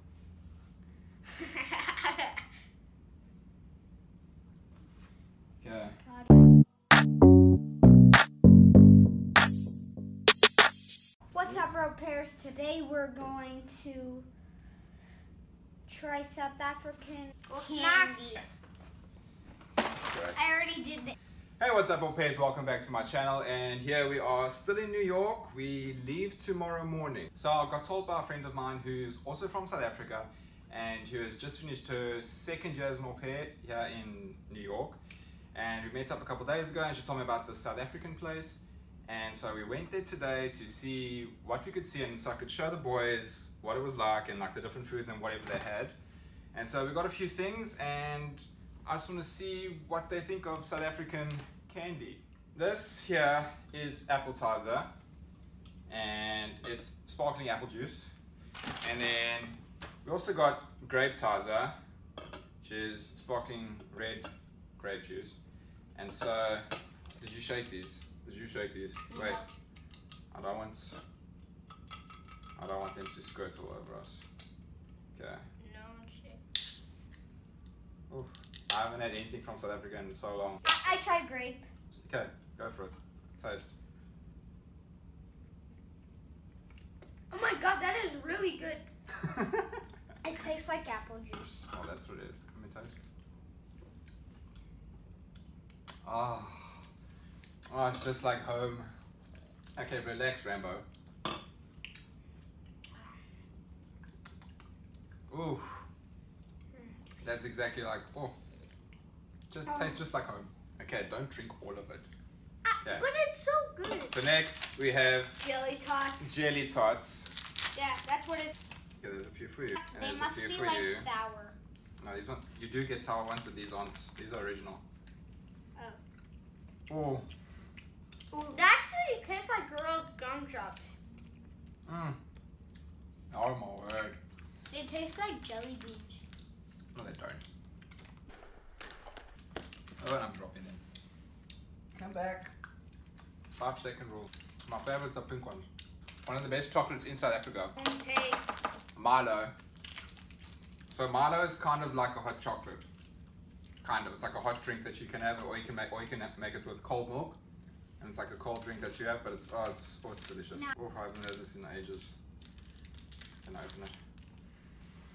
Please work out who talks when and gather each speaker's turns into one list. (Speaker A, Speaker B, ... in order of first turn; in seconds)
Speaker A: 1.5-2.3, 17.5-18.4, 69.1-69.4, 75.6-76.4, 87.3-88.9, 112.7-114.2, 115.4-116.4, 117.7-118.5, 128.3-130.9, 134.7-136.0, 147.8-148.6
Speaker B: 5.6-6.0, 11.4-11.7, 20.0-20.4, 21.6-35.0, 35.5-46.0, 46.5-54.9, 55.9-58.1, 58.8-61.8, 62.6-65.4, 65.9-66.6, 67.2-69.5, 70.3-71.0, 72.6-74.2, 75.1-75.4, 78.1-80.6, 82.0-83.7, 89.2-89.7, 91.6-93.0, 96.0-96.8, 97.7-98.9, 99.8-100.8, 105.3-105.8, 107.2-108.3, 109.5-112.1, 114.1-115.4, 116.2-117.3, 119.0-121.1, 122.0-124.8, 126.9-127.3, 131.8-132.2, 133.3-134.2, 136.9-137.4, 140.0-140.8, 141.9-142.5, 143.6-145.7, 146.2-147.7, 148.9-149.5, 150.9-152.8, 153.8-157.4, 158.0-162.1, 163.4-163.9
Speaker C: 6.0-6.3, 11.3-14.3, 15.9-18.4, 20.4-21.1, 80.6-81.7, 90.2-91.7, 119.8-121.5, 135.6-136.2